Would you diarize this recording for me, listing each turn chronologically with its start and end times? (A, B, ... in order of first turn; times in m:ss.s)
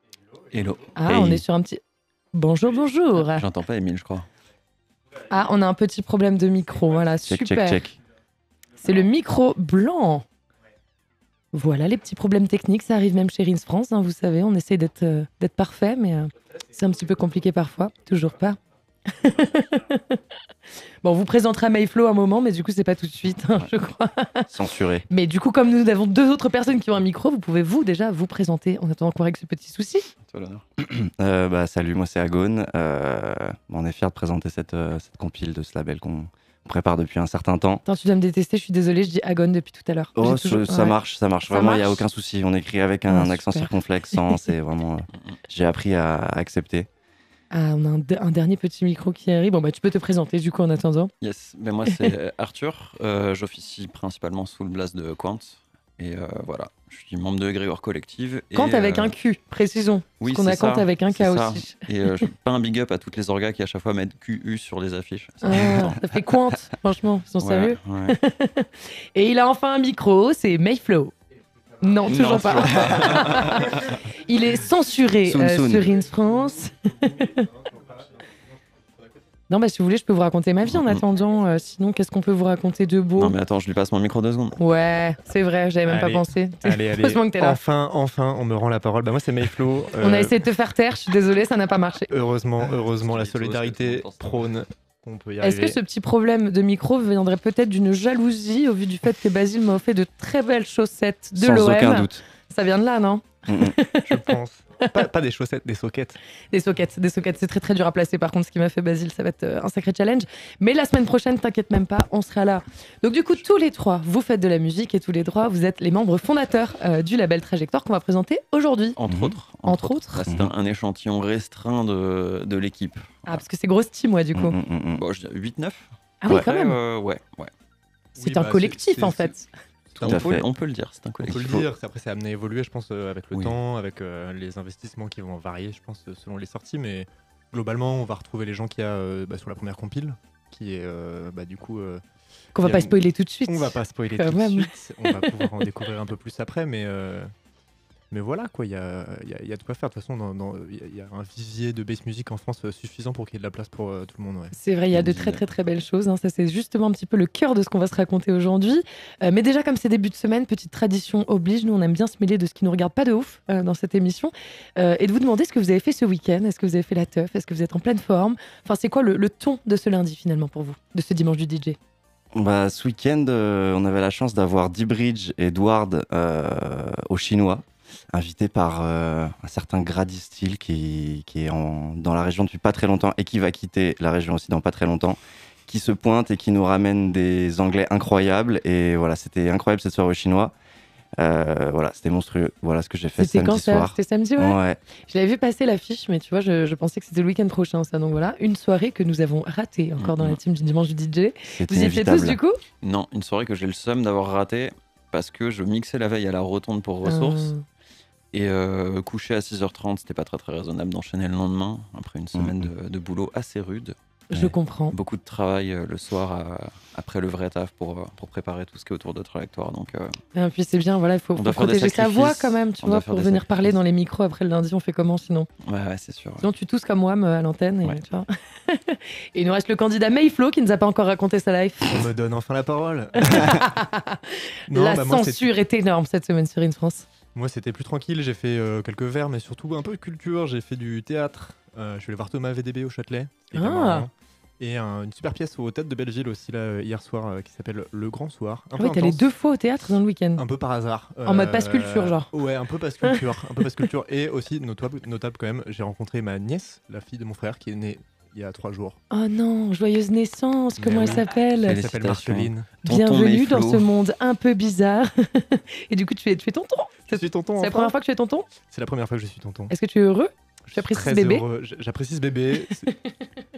0:00.5-0:01.4 A
0:01.0-0:01.8 B
0:01.1-0:01.4 C
0:02.3-0:03.4 B
0:03.2-0:04.3 A
0:05.3-0:07.8 B
0:07.3-0:08.0 C
0:08.8-0:10.2 B
0:11.5-0:20.2 B
0:21.0-0:24.5 B
0:24.5-0:25.0 C
0:25.1-0:30.1 B
0:30.3-0:30.6 A
0:30.8-0:37.8 C
0:37.9-0:41.0 B
0:40.2-0:46.9 C
0:41.5-0:42.0 B
0:43.1-0:44.4 B
0:47.5-0:51.1 B
0:51.2-0:59.2 A
0:58.6-1:02.3 B
1:00.2-1:06.0 A
1:05.4-1:11.1 B
1:07.4-1:08.2 A
1:11.8-1:17.5 B
1:12.0-1:13.8 C
1:12.3-1:13.6 A
1:15.2-1:15.9 C
1:19.5-1:23.4 B
1:20.7-1:21.0 A
1:23.2-1:24.6 A
1:24.6-1:27.6 B
1:25.8-1:30.4 D
1:30.0-1:32.1 B
1:32.1-1:35.8 D
1:32.6-1:34.5 A
1:35.4-1:45.1 B
1:41.4-1:42.2 C
1:43.5-1:43.8 C
1:44.0-1:46.2 D
1:46.5-1:59.0 B
1:59.0-2:03.4 A
1:59.1-1:59.4 C
1:59.7-2:00.2 B
2:00.3-2:00.5 C
2:03.3-2:04.6 B
2:04.4-2:05.0 C
2:05.0-2:07.5 A
2:06.2-2:06.8 B
2:08.2-2:09.3 D
2:08.2-2:09.5 B
2:10.0-2:10.4 D
2:10.0-2:11.7 A
2:10.1-2:10.4 C
2:11.2-2:22.0 D
2:22.6-2:25.6 B
2:22.6-2:27.3 D
2:28.1-2:34.6 D
2:34.5-2:51.8 B
2:34.9-2:35.4 A
2:52.4-3:10.5 C
3:11.2-3:14.8 C
3:13.2-3:22.6 B
3:20.0-3:20.4 A
3:21.5-3:22.4 C
3:22.8-3:27.5 A
3:27.1-3:27.6 B
3:28.3-3:34.0 A
3:32.4-3:32.7 C
3:34.3-3:35.0 B
3:34.9-3:40.2 A
3:40.3-3:45.5 B
3:41.4-3:43.8 A
3:45.6-3:46.4 A
3:46.4-3:52.0 B
3:51.9-3:53.8 D
3:53.2-3:57.1 B
3:54.7-3:55.5 D
3:57.3-4:09.3 D
4:03.5-4:04.1 B
4:08.8-4:10.4 B
4:10.4-4:19.0 D
4:11.2-4:12.3 B
4:19.1-4:21.8 B
4:20.9-4:23.9 A
4:21.0-4:22.7 D
4:22.8-4:28.5 B
4:27.1-4:27.9 D
4:28.7-4:29.7 D
4:29.7-4:31.4 B
4:30.7-4:32.9 D
4:32.6-4:33.3 B